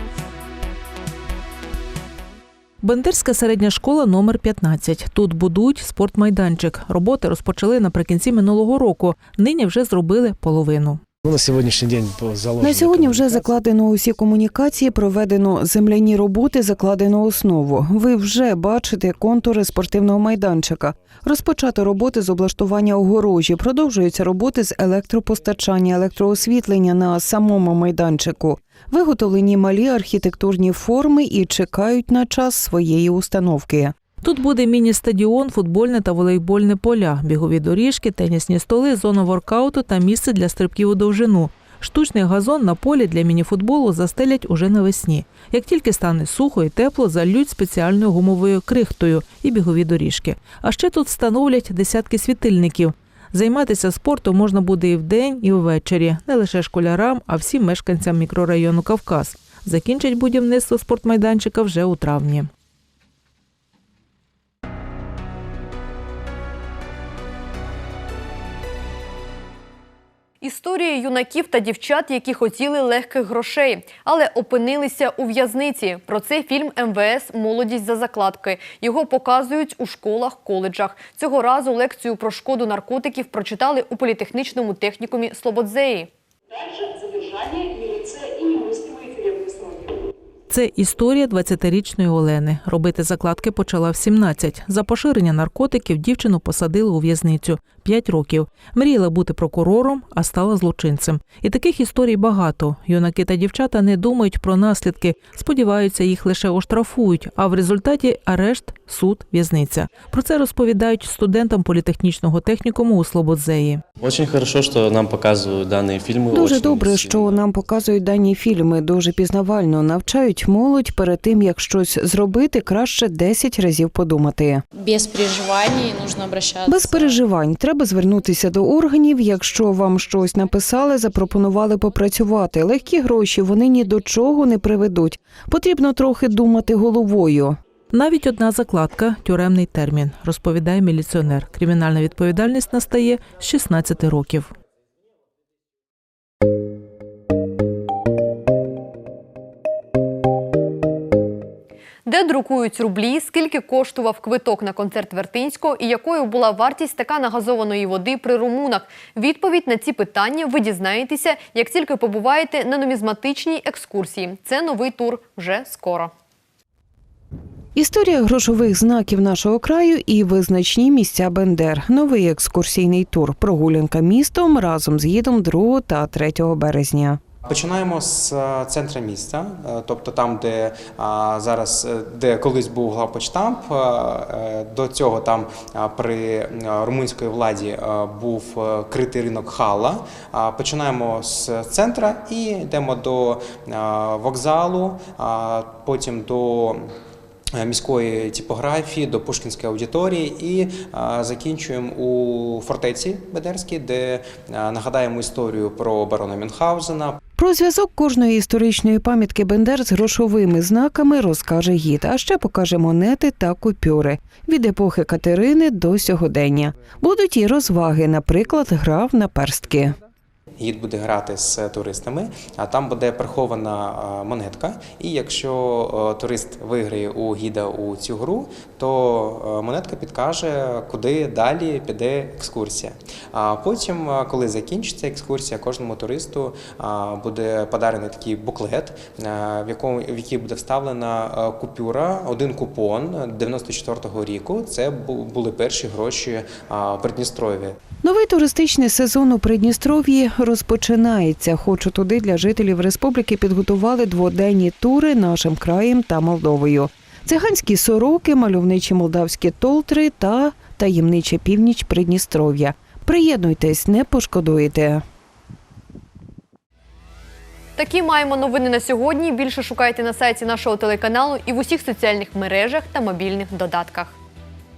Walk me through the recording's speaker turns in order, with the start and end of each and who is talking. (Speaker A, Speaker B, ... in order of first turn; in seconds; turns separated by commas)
Speaker A: 2.8-11.0, Speaker B: 11.2-13.3, Speaker C: 12.6-33.9, Speaker A: 34.2-62.5, Speaker D: 70.4-86.1, Speaker A: 90.5-113.8, Speaker E: 114.0-117.4, Speaker C: 116.3-124.6, Speaker F: 124.7-127.2, Speaker C: 126.7-137.6, Speaker A: 137.9-144.5, Speaker D: 152.0-166.1, Speaker C: 167.8-177.2, Speaker G: 177.4-196.9, Speaker G: 197.6-207.2, Speaker C: 207.4-219.9, Speaker G: 220.6-247.8, Speaker C: 248.0-265.0, Speaker D: 267.8-274.1